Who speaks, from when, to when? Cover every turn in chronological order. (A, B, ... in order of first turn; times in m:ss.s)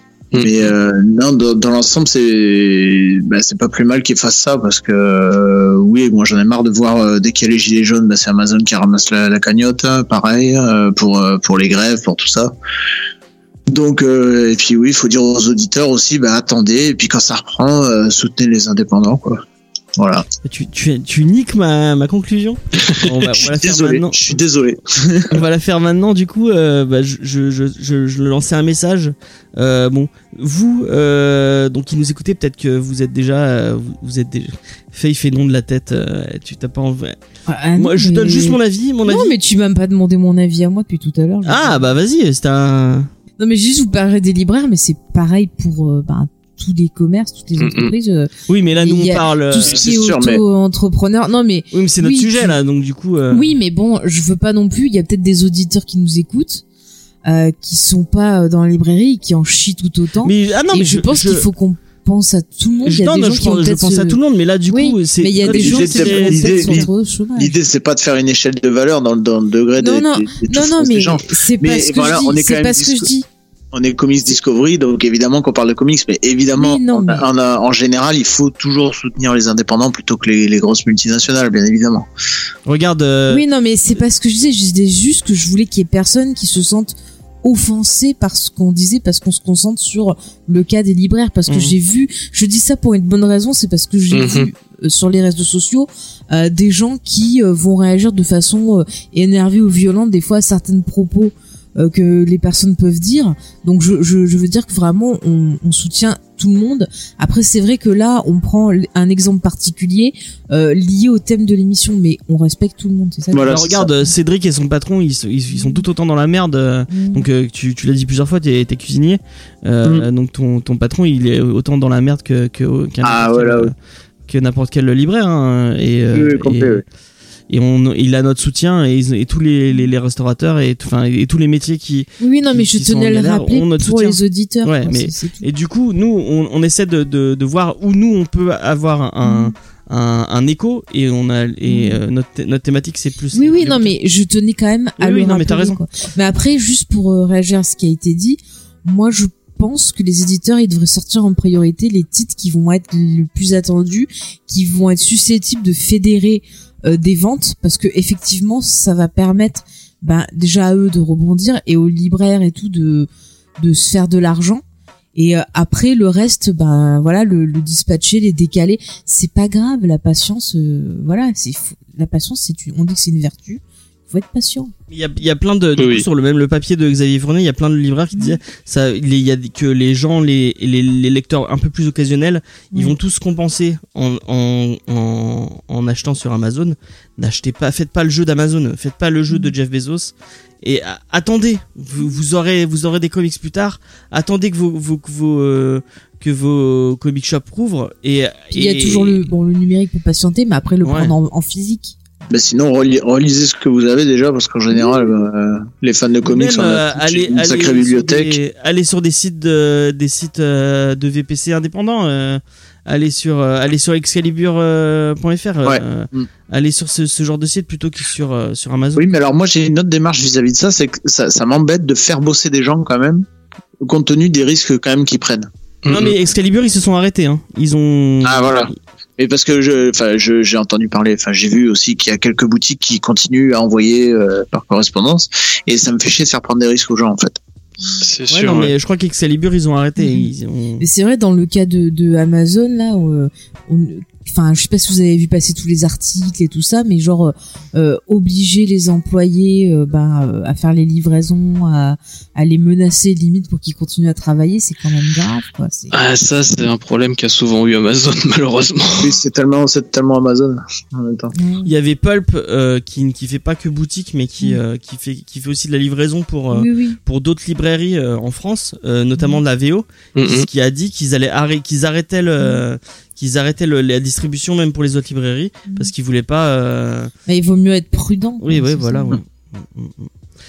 0:00.3-0:00.7 A
0:00.3-0:12.5 B
0:13.7-0:19.4 B
0:20.0-0:20.2 B
0:20.4-0:24.4 C
0:23.4-0:25.3 B
0:25.3-0:37.2 C
0:37.5-0:41.8 D
0:37.8-0:39.3 C
0:41.4-0:43.1 C
0:43.4-0:52.6 D
0:47.6-0:47.9 A
0:48.5-0:49.8 C
0:49.6-0:50.4 B
0:51.7-0:53.5 C
0:53.3-0:56.6 D
0:57.2-1:07.6 D
1:00.2-1:01.4 C
1:02.8-1:06.9 C
1:05.4-1:13.1 B
1:09.8-1:13.3 D
1:13.7-1:22.1 B
1:16.6-1:17.3 D
1:22.6-1:23.4 C
1:23.3-1:53.5 D
1:31.5-1:31.7 C
1:34.1-1:34.5 A
1:53.3-1:53.9 B
1:53.4-2:03.7 C
1:55.6-1:55.8 D
1:56.9-1:57.2 D
2:03.0-2:03.7 B
2:04.3-2:06.8 C
2:06.1-2:06.8 B
2:07.5-2:23.9 C
2:12.2-2:15.5 D
2:19.2-2:19.5 D
2:21.6-2:22.0 D
2:23.3-2:43.1 D
2:25.0-2:25.8 C
2:43.6-2:44.6 D
2:45.1-2:54.7 D
2:54.9-3:19.2 C
2:55.8-2:56.0 A
3:18.5-3:22.0 D
3:20.8-3:21.1 C
3:22.3-3:28.4 B
3:24.7-3:25.0 D
3:26.2-3:39.1 C
3:35.6-3:36.3 B
3:39.0-3:43.2 B
3:43.8-3:45.5 B
3:45.8-3:46.1 A
3:45.9-3:48.7 C
3:48.2-3:57.4 B
3:58.0-3:58.7 A
3:58.3-4:00.8 C
4:00.0-4:15.9 D
4:15.9-4:19.2 A
4:19.0-4:21.3 B
4:21.3-4:21.7 D
4:21.6-4:37.1 C
4:26.5-4:27.0 D
4:30.1-4:30.5 A
4:35.7-4:35.9 D
4:37.3-4:39.2 D
4:38.4-4:40.1 C